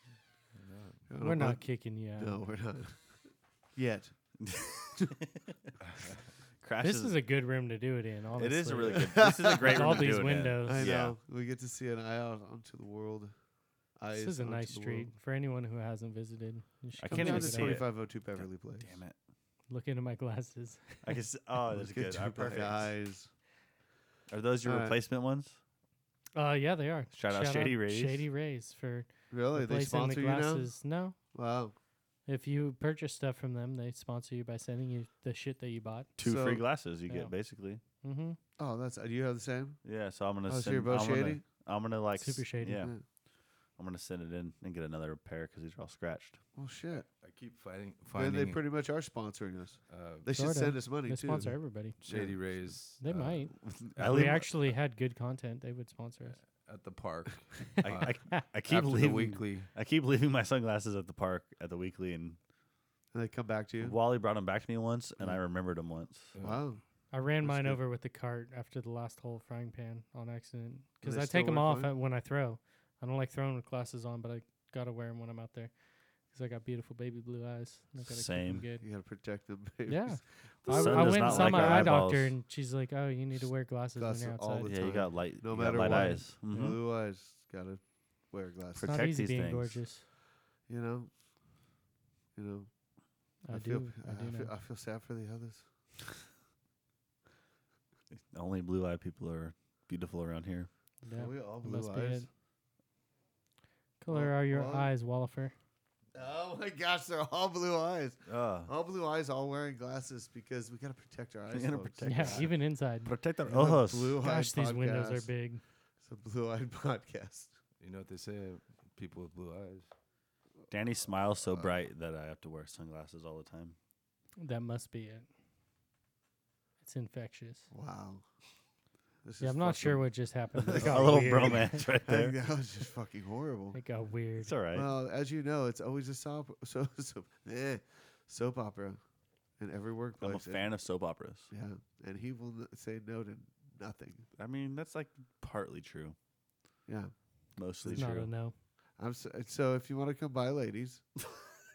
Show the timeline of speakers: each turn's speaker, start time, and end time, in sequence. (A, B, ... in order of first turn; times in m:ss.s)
0:00.6-0:01.1 A
0:01.1-0:01.6 B
0:01.2-0:02.4 C
0:02.2-0:04.1 B
0:04.4-0:05.7 D
0:06.6-0:07.2 D
0:06.8-0:10.8 C
0:08.4-0:11.2 D
0:08.9-0:13.3 B
0:14.0-0:15.2 B
0:14.2-0:17.8 C
0:17.0-0:19.2 D
0:17.1-0:19.0 B
0:19.7-0:21.2 C
0:21.0-0:22.9 D
0:21.7-0:23.3 B
0:24.3-0:25.6 D
0:24.6-0:25.0 B
0:26.4-0:31.2 C
0:27.1-0:28.3 D
0:29.3-0:30.7 B
0:31.3-0:31.8 B
0:32.3-0:36.1 C
0:36.2-0:37.8 D
0:36.2-0:36.6 B
0:38.0-0:38.4 C
0:38.6-0:39.8 B
0:39.8-0:42.9 D
0:40.5-0:41.4 B
0:42.2-0:42.9 C
0:42.7-0:43.0 B
0:43.8-0:46.4 D
0:46.6-0:47.1 B
0:47.1-0:48.6 A
0:48.1-0:51.6 B
0:49.9-0:50.3 A
0:50.4-0:52.0 C
0:51.3-0:53.5 A
0:52.1-0:52.4 B
0:53.0-0:56.4 C
0:53.6-0:54.5 D
0:56.3-0:59.7 A
0:57.8-1:02.4 D
1:03.1-1:04.0 B
1:03.8-1:06.3 D
1:06.3-1:06.7 A
1:06.4-1:06.8 B
1:07.1-1:15.7 C
1:07.4-1:07.8 B
1:11.0-1:11.9 B
1:16.3-1:18.8 C
1:18.0-1:18.6 D
1:18.8-1:22.0 B
1:19.9-1:24.7 C
1:20.6-1:22.3 D
1:24.0-1:29.0 B
1:24.7-1:26.8 D
1:25.6-1:26.8 C
1:28.8-1:29.8 D
1:28.8-1:30.0 C
1:30.7-1:31.1 B
1:32.4-1:32.7 B
1:33.4-1:34.5 C
1:33.5-1:35.7 B
1:38.1-1:40.7 D
1:41.0-1:42.3 C
1:41.1-1:42.3 B
1:44.0-1:45.5 C
1:44.1-1:44.9 B
1:46.1-1:52.5 B
1:48.3-1:48.7 D
1:51.5-1:52.5 D
1:52.0-1:53.1 C
1:53.0-1:54.2 D
1:53.5-1:55.3 B
1:54.2-1:55.6 C
1:56.0-1:57.6 B
1:57.8-1:59.9 A
2:00.7-2:03.8 D
2:04.4-2:05.3 C
2:06.8-2:07.7 C
2:07.7-2:08.3 B
2:09.2-2:13.8 B
2:09.4-2:11.8 C
2:10.7-2:12.4 D
2:13.7-2:14.5 C
2:14.4-2:14.9 D
2:14.7-2:19.0 B
2:19.6-2:20.7 B
2:20.2-2:21.5 D
2:21.5-2:24.3 B
2:24.4-2:26.2 D
2:26.9-2:27.1 B
2:27.6-2:28.3 D
2:27.8-2:28.1 B
2:27.9-2:28.5 C
2:29.0-2:31.0 B